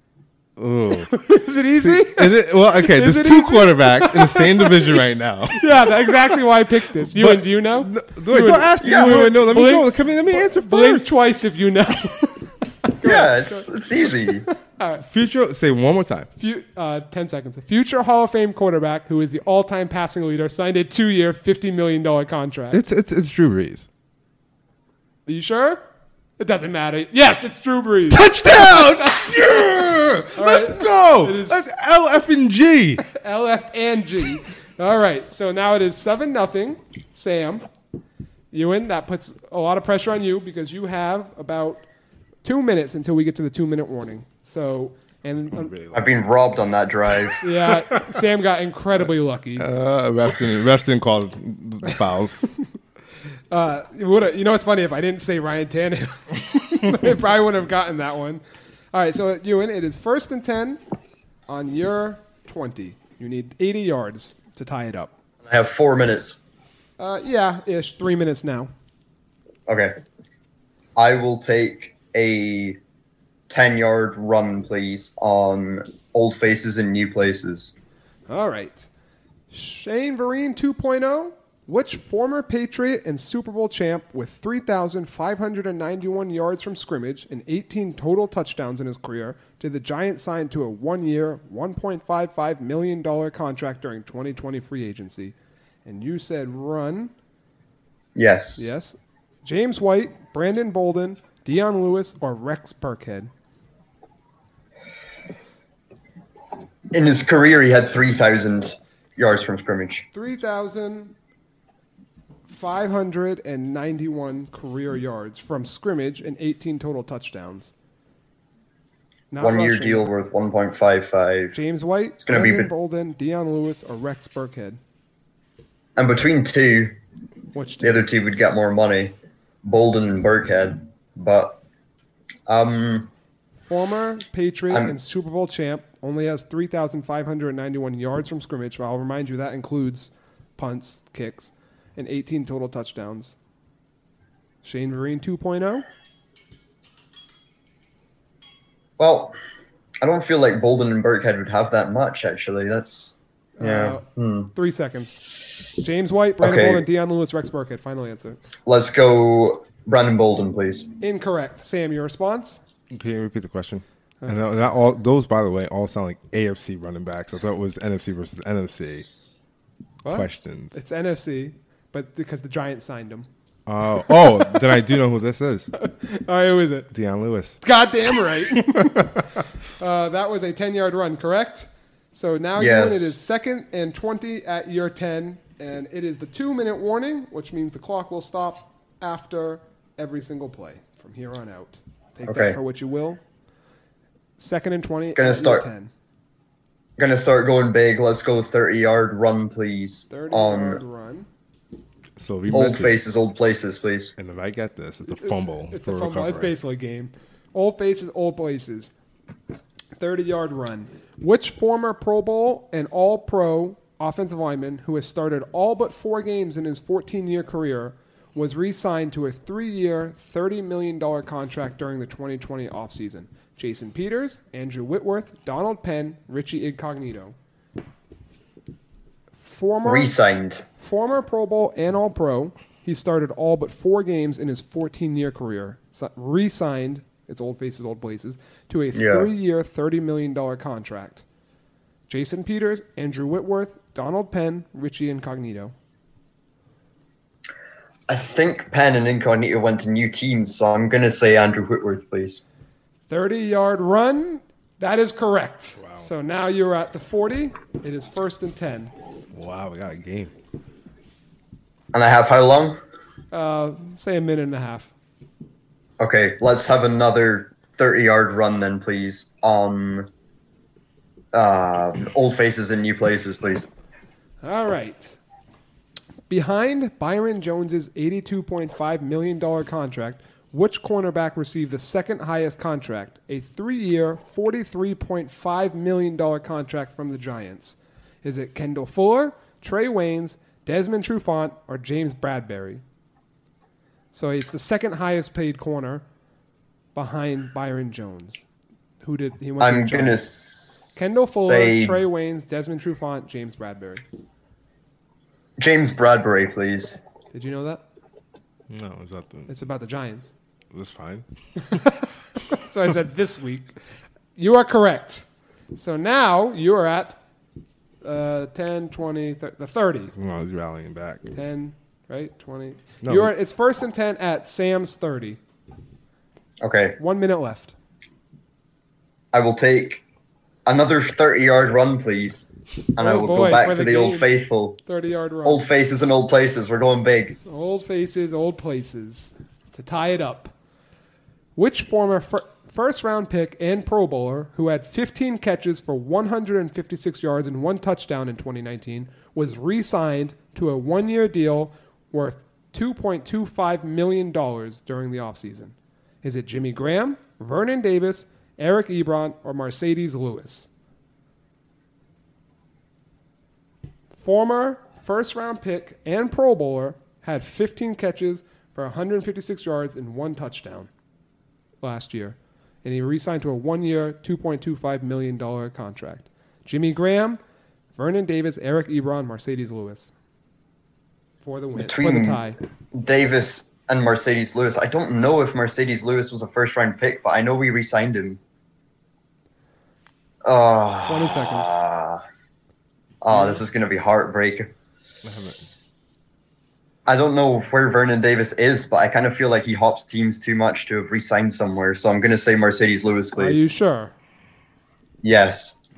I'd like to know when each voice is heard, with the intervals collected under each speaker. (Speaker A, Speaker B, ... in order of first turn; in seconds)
Speaker A: 0.6-1.1, 1.8-6.4, 7.0-11.2, 15.1-16.3, 22.7-23.9, 28.1-33.0, 45.5-46.3, 47.8-48.2, 49.6-52.4, 162.9-169.1, 170.1-170.8, 173.7-175.7, 176.9-177.6, 178.7-179.1, 202.2-203.0, 204.2-206.6, 255.8-256.1, 259.3-260.3, 308.7-309.5, 310.7-311.8, 320.2-321.3, 323.0-323.3, 395.2-395.6
Speaker B: 1.1-5.0, 5.5-15.1, 16.4-22.8, 25.3-25.8, 26.4-31.7, 33.0-37.7, 38.5-41.9, 42.4-45.7, 47.4-49.7, 53.5-58.4, 58.9-60.8, 61.5-65.1, 67.0-68.7, 78.3-78.9, 79.5-97.1, 98.6-103.3, 110.1-111.1, 112.5-117.7, 119.3-120.1, 121.5-124.8, 127.5-128.1, 133.6-143.4, 144.6-145.8, 153.6-155.2, 155.8-158.4, 161.0-162.6, 170.0-173.3, 174.0-174.8, 175.7-176.9, 177.6-179.1, 179.8-193.2, 194.4-195.9, 200.1-201.3, 205.1-208.9, 210.0-227.3, 229.4-230.2, 230.8-241.2, 242.1-245.7, 253.1-258.9, 263.3-264.9, 274.4-275.2, 276.3-292.8, 294.1-296.0, 296.9-298.4, 299.0-300.2, 300.9-304.0, 307.3-307.8, 309.5-310.3, 311.7-313.8, 314.4-317.2, 318.0-320.1, 321.3-325.4, 327.0-327.8, 333.0-334.3, 334.9-335.6, 337.5-340.5, 341.6-360.7, 364.2-370.9, 371.8-377.4, 378.0-380.1, 381.4-382.6, 391.1-391.8, 393.3-393.6, 403.4-404.1
Speaker C: 8.8-9.3, 13.0-14.5, 45.9-47.4, 65.4-66.4, 69.7-70.0, 71.0-72.8, 73.5-77.7, 98.2-98.7, 106.9-110.1, 119.4-121.6, 122.2-122.7, 126.0-127.0, 127.8-131.6, 132.5-133.1, 134.7-134.9, 149.0-149.3, 150.0-154.5, 156.4-156.9, 158.7-160.9, 182.6-183.2, 192.2-192.6, 195.2-195.7, 197.0-200.8, 202.5-204.1, 229.8-230.6, 238.9-239.3, 248.1-252.4, 261.9-262.8, 266.0-270.1, 271.3-273.7, 299.6-302.0, 305.6-307.0, 326.6-327.0, 329.3-330.0, 330.7-334.8, 335.4-337.4, 381.8-388.4, 390.4-392.2, 393.2-394.7, 397.1-403.6, 405.2-405.8